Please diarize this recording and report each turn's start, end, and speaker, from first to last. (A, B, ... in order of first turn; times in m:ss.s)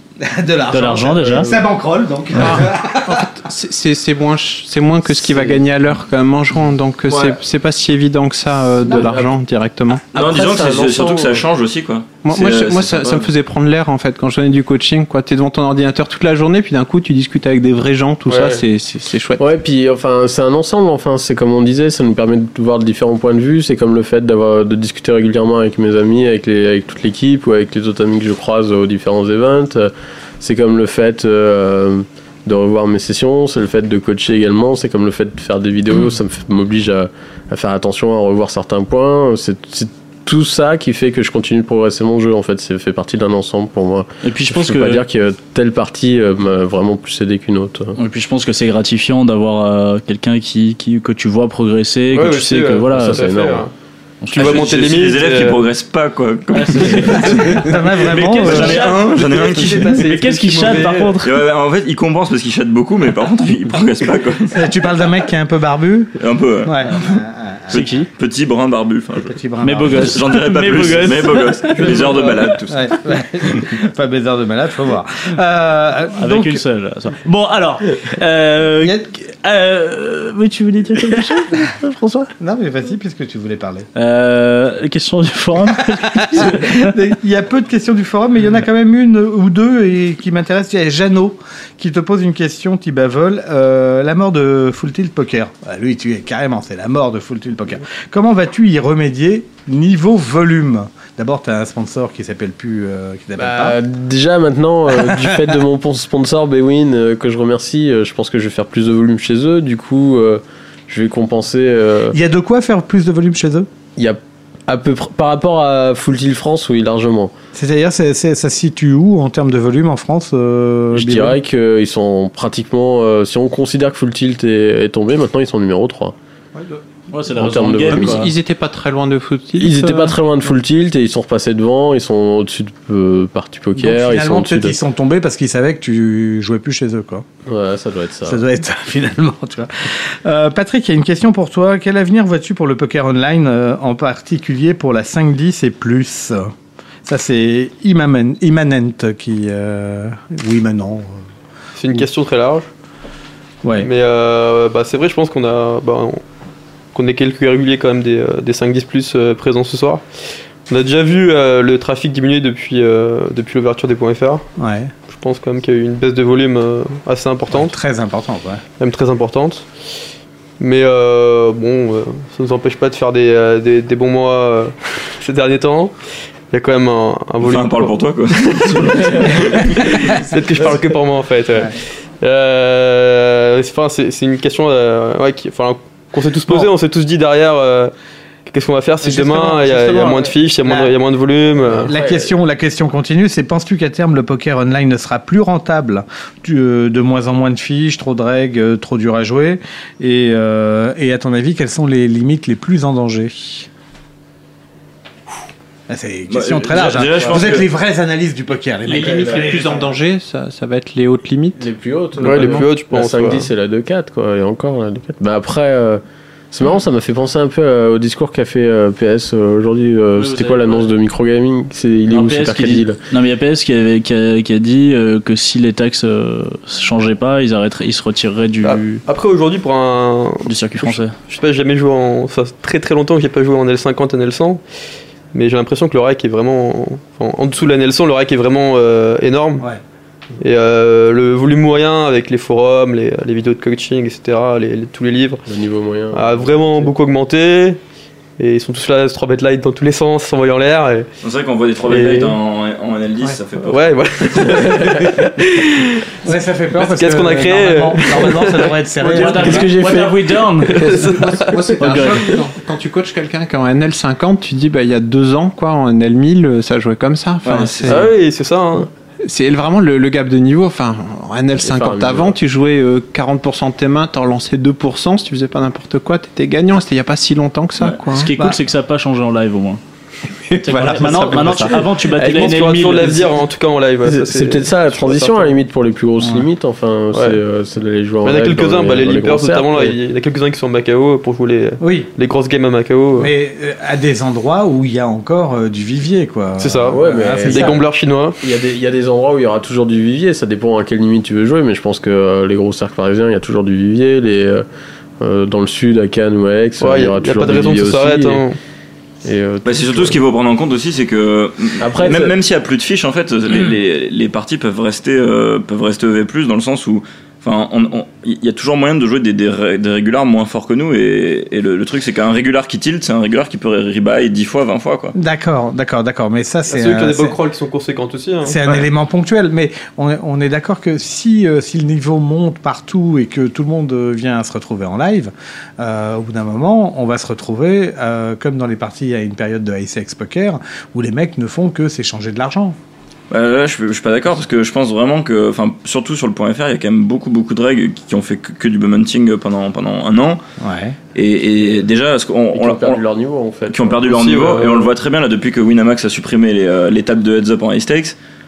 0:00.2-0:03.3 A
0:00.7-0:01.5 B
0:02.3-0:10.0 C
0:05.3-0:05.6 D
0:08.8-0:09.3 D
0:10.1-0:13.3 E
0:10.1-0:11.4 D
0:12.2-0:19.4 C
0:18.3-0:18.6 F
0:19.4-0:48.0 D
0:44.2-0:45.0 B
0:48.0-0:53.3 B
0:52.1-0:53.7 F
0:52.9-0:53.7 D
0:54.2-0:54.8 B
0:54.3-0:55.6 F
0:54.4-1:00.0 E
0:56.5-1:01.3 B
0:57.0-0:59.1 A
0:59.2-1:01.2 F
1:01.2-1:04.6 E
1:04.5-1:07.9 A
1:06.2-1:13.0 E
1:07.7-1:08.1 B
1:09.2-1:10.2 A
1:09.6-1:12.3 B
1:11.8-1:16.6 A
1:16.2-1:22.3 B
1:18.8-1:19.0 A
1:22.4-1:23.9 A
1:23.9-1:26.9 B
1:26.1-1:43.8 A
1:43.4-1:52.1 D
1:44.9-1:45.5 A
1:52.1-1:53.7 A
1:54.0-1:57.3 D
1:57.5-2:01.4 A
2:00.9-2:06.1 D
2:07.1-2:08.3 B
2:07.4-2:08.3 D
2:07.9-2:10.2 C
2:09.6-2:14.8 D
2:13.8-2:17.2 A
2:17.4-2:18.4 D
2:18.2-2:26.5 A
2:27.0-2:31.2 A
2:31.8-2:32.7 F
2:33.6-2:33.9 A
2:33.8-2:36.2 F
2:36.9-2:40.0 F
2:40.7-2:44.4 F
2:44.6-2:44.9 A
2:45.1-2:47.7 F
2:47.5-2:48.6 A
2:48.8-2:49.7 F
2:50.6-2:55.9 F
2:56.5-2:58.0 F
2:57.4-2:59.9 E
2:58.5-3:07.9 F
3:08.5-3:11.9 F
3:09.0-3:10.2 C
3:09.1-3:10.9 A
3:11.7-3:12.3 D
3:11.8-3:23.7 A
3:25.9-3:29.8 A
3:26.3-3:27.7 E
3:28.9-3:32.7 C
3:29.0-3:29.6 D
3:31.6-3:43.0 D
3:32.2-3:33.5 F
3:40.2-3:40.9 B
3:42.1-3:49.0 B
3:48.6-3:54.6 F
3:50.4-3:51.1 B
3:55.3-3:59.6 F
4:00.4-4:05.4 F
4:05.5-4:06.9 D
4:06.1-4:07.8 F
4:08.4-4:11.1 F
4:11.2-4:13.9 E
4:11.9-4:12.4 F
4:13.6-4:16.1 F
4:14.5-4:14.9 D
4:16.2-4:19.7 A
4:16.7-4:18.7 F
4:19.0-4:20.9 B
4:19.1-4:20.2 D
4:20.7-4:21.8 F
4:20.8-4:28.1 C
4:21.8-4:22.3 B
4:27.4-4:28.0 E
4:27.8-4:28.9 F
4:29.2-4:38.3 C
4:31.6-4:32.4 D
4:38.1-4:39.8 B
4:40.5-4:41.9 C
4:40.6-4:43.3 B
4:42.1-4:45.5 F
4:42.2-4:43.1 D
4:44.0-4:50.0 D
4:47.1-4:47.4 F
4:48.2-4:53.3 F
4:51.8-4:52.1 A
4:53.2-4:57.8 A
4:56.6-4:58.4 F
4:56.9-4:57.8 D
4:58.4-5:04.6 D
5:05.2-5:08.4 D
5:06.8-5:08.6 F
5:09.2-5:10.2 D
5:09.6-5:25.1 E
5:11.8-5:12.4 D
5:25.1-5:27.4 A
5:26.7-5:28.7 F
5:28.4-5:42.8 A
5:43.3-5:50.4 E
5:50.6-5:51.0 A
5:51.1-5:53.0 E
5:52.5-5:54.0 D
5:53.7-5:58.2 E
5:54.0-5:54.9 F